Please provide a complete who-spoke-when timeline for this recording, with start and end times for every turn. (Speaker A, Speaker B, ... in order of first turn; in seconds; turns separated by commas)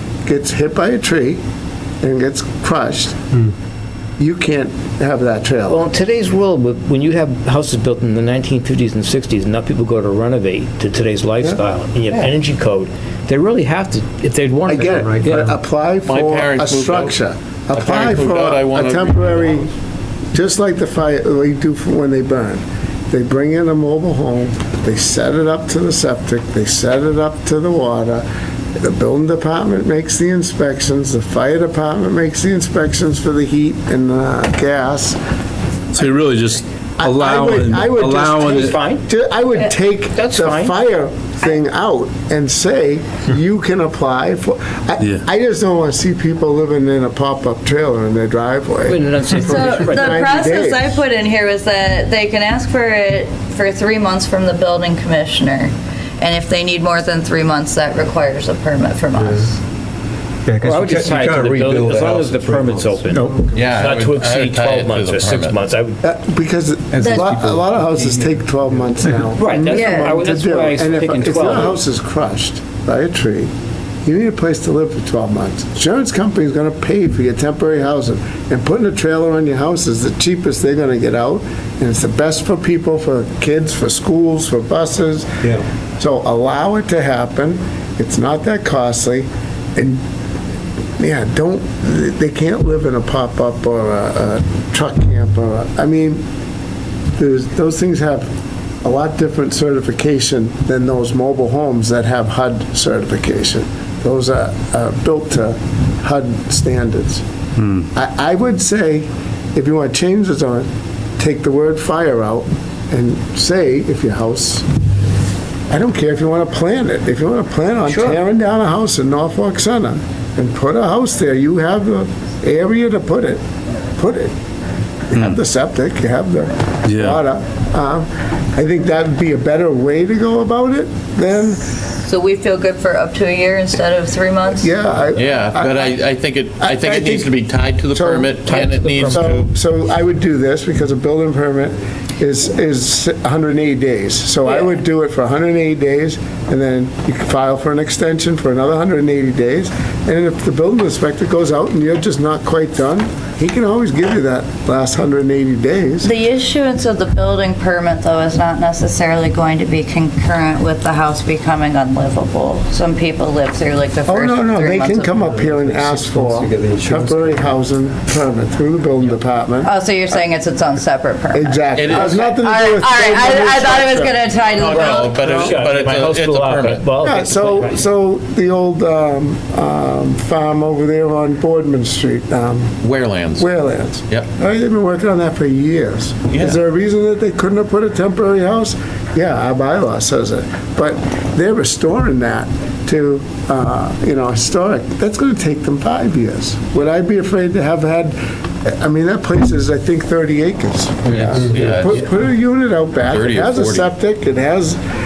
Speaker A: 0.2-1.4, Speaker A: 2.0-3.2, Speaker A: 4.2-5.8, Speaker B: 5.7-15.5, Speaker A: 11.4-12.3, Speaker A: 14.7-19.7, Speaker C: 15.1-15.5, Speaker D: 16.1-17.2, Speaker D: 17.7-19.5, Speaker A: 20.3-28.2, Speaker A: 28.8-35.2, Speaker E: 35.9-38.8, Speaker A: 37.0-51.0, Speaker B: 38.0-39.0, Speaker B: 40.1-40.8, Speaker B: 48.9-50.2, Speaker F: 49.4-59.6, Speaker C: 60.5-63.7, Speaker B: 60.6-66.0, Speaker D: 63.5-65.6, Speaker A: 66.0-73.5, Speaker C: 66.9-68.3, Speaker F: 67.0-67.4, Speaker B: 69.3-71.8, Speaker F: 69.7-70.1, Speaker A: 74.0-85.4, Speaker A: 86.0-90.0, Speaker A: 91.0-96.2, Speaker A: 97.2-98.3, Speaker A: 98.8-107.2, Speaker E: 107.6-107.9, Speaker A: 107.9-114.7, Speaker A: 115.7-123.4, Speaker A: 124.0-124.3, Speaker A: 125.1-131.7, Speaker E: 126.8-127.2, Speaker F: 132.0-134.7, Speaker A: 134.6-136.0, Speaker D: 135.1-139.5, Speaker A: 136.6-137.3, Speaker A: 137.9-156.1, Speaker B: 138.4-139.3, Speaker F: 156.0-165.2, Speaker A: 164.1-169.7, Speaker C: 165.3-167.4, Speaker F: 169.6-175.4, Speaker A: 171.3-175.2, Speaker D: 171.7-172.3, Speaker D: 174.6-176.8, Speaker B: 174.9-177.8, Speaker A: 177.0-182.8, Speaker D: 182.8-183.5, Speaker A: 183.4-204.8, Speaker D: 186.3-186.6, Speaker D: 201.1-202.1, Speaker D: 203.0-203.9